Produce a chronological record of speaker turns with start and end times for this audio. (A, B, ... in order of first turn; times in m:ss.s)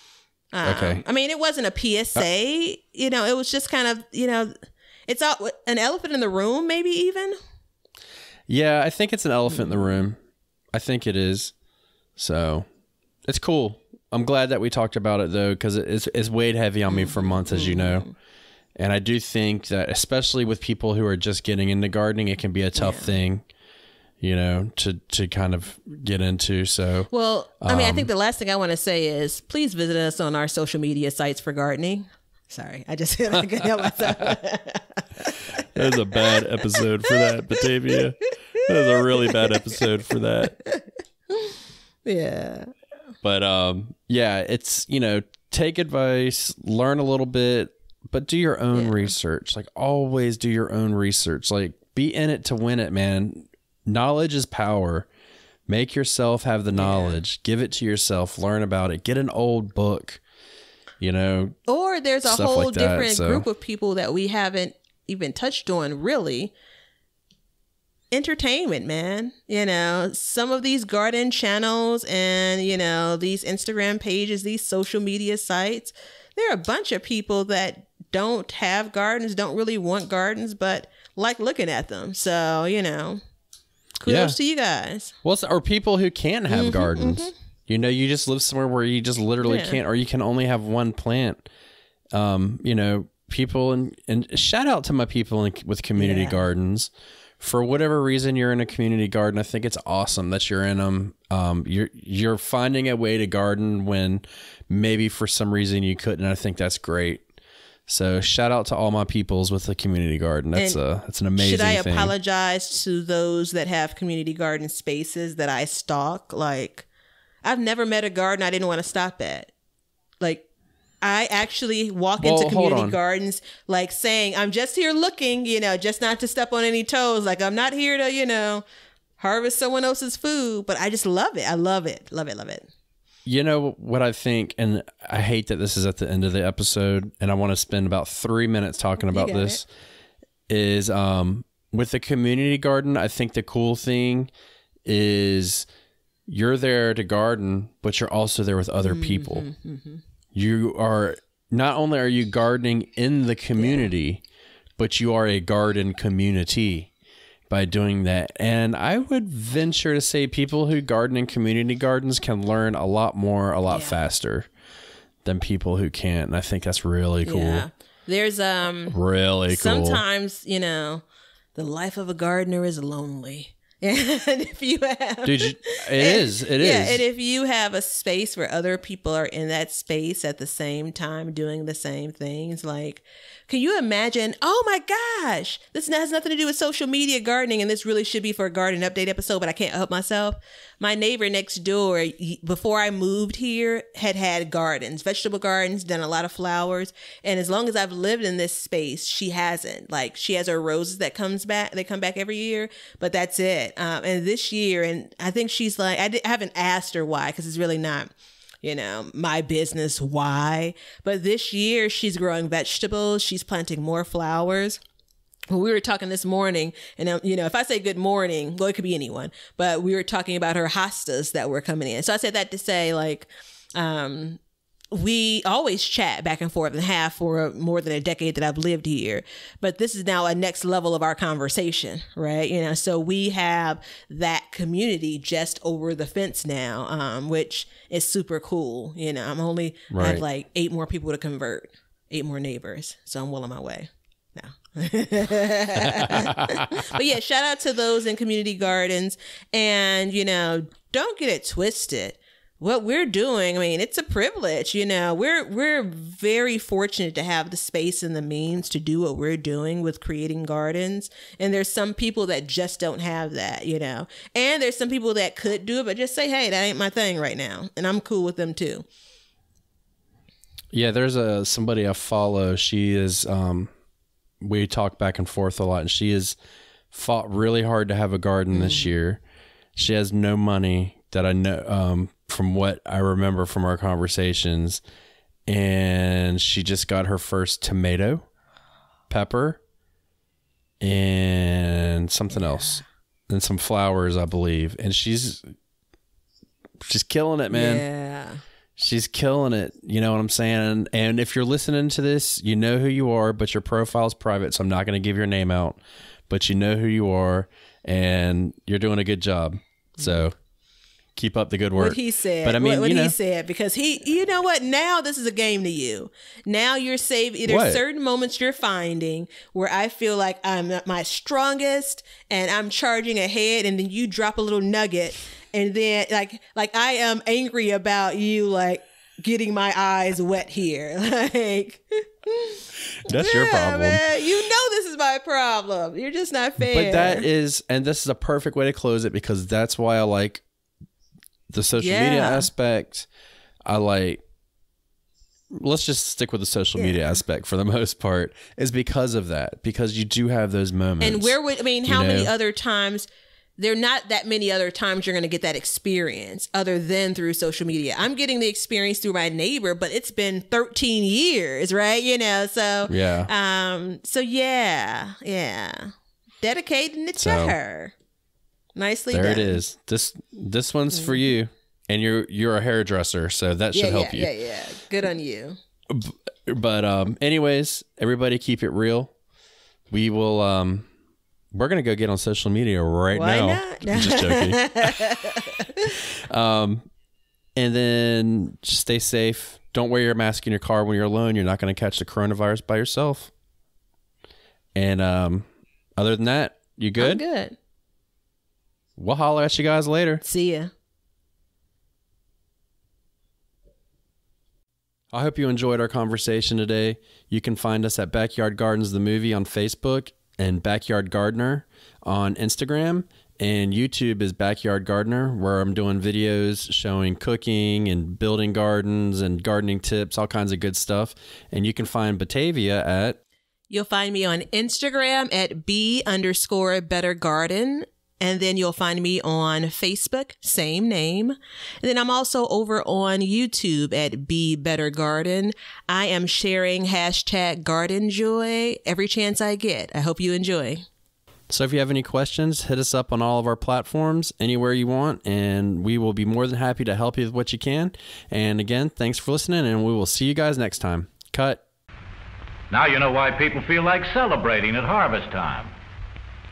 0:00.5-0:04.5 A
0:00.6-0:01.0 B
0:05.1-0:07.3 A
0:08.5-0:10.2 B
0:09.5-0:10.0 A
0:10.7-0:11.5 B
0:12.2-0:12.7 B
0:13.2-0:18.1 B
0:16.9-0:18.1 A
0:18.8-0:23.4 B
0:22.8-0:23.1 A
0:24.2-0:28.1 B
0:27.1-0:38.0 A
0:33.6-0:34.4 B
0:35.6-0:40.5 B
0:38.7-0:39.8 A
0:40.4-0:42.7 A
0:43.2-0:55.1 B
0:48.7-0:49.1 A
0:55.7-1:00.2 B
0:56.7-0:57.2 A
1:01.0-1:01.6 B
1:01.7-1:06.5 A
1:02.2-1:03.4 B
1:08.1-1:23.2 A
1:24.0-1:25.1 A
1:24.0-1:24.4 B
1:25.2-1:31.4 B
1:26.5-1:27.3 A
1:29.4-1:29.8 A
1:32.1-1:47.2 B
1:36.0-1:36.4 A
1:47.9-1:52.1 B
1:50.5-1:50.8 A
1:51.4-1:56.8 A
1:57.4-1:59.5 A
2:00.2-2:00.5 A
2:01.0-2:08.6 A
2:02.2-2:03.0 B
2:09.2-2:12.7 A
2:13.2-2:19.7 B
2:19.1-2:19.6 A
2:20.5-2:24.3 B
2:24.8-2:25.7 B
2:26.3-2:29.4 B
2:28.8-2:30.0 A
2:30.3-2:34.2 B
2:33.6-2:33.9 A
2:34.8-2:36.9 B
2:37.5-2:44.5 B
2:43.7-2:44.0 A
2:45.2-2:47.6 B
2:47.2-2:49.0 A
2:48.9-2:50.0 B
2:49.5-2:51.0 A
2:51.5-3:28.1 A
2:55.2-2:57.0 B
3:28.6-3:34.8 A
3:35.5-3:44.4 A
3:44.9-4:28.8 A
3:59.9-4:00.2 B
4:05.8-4:06.6 B
4:30.7-4:33.7 B
4:34.4-4:36.4 B
4:36.9-4:39.2 B
4:38.5-4:38.9 A
4:39.8-4:44.8 B
4:45.4-4:48.2 B
4:49.1-4:49.6 B
4:50.8-4:55.5 B
4:56.8-4:57.8 B
4:57.5-4:58.4 A
4:58.8-5:10.3 B
5:11.2-5:13.2 B
5:11.8-5:37.3 A
5:17.4-5:17.8 B
5:33.0-5:34.0 B
5:36.6-5:40.4 B
5:41.5-5:43.1 B
5:41.8-5:42.5 A
5:43.6-5:44.2 B
5:45.5-5:52.3 B
5:46.8-5:47.2 A
5:51.0-6:07.9 A
6:02.9-6:03.3 B
6:07.2-6:07.5 B
6:08.7-6:09.6 A
6:09.1-6:14.3 B
6:10.9-6:11.2 A
6:13.7-6:15.6 A
6:15.9-6:19.1 B
6:19.9-6:20.9 B
6:21.5-6:25.2 B
6:23.1-6:25.9 A
6:26.3-6:26.9 B
6:27.6-6:33.3 B
6:34.7-6:37.2 B
6:37.0-6:37.6 A
6:39.0-6:40.2 B
6:40.2-6:40.7 A
6:45.1-7:03.2 B
7:03.7-7:20.8 A
7:21.5-7:31.6 B
7:32.7-7:35.7 C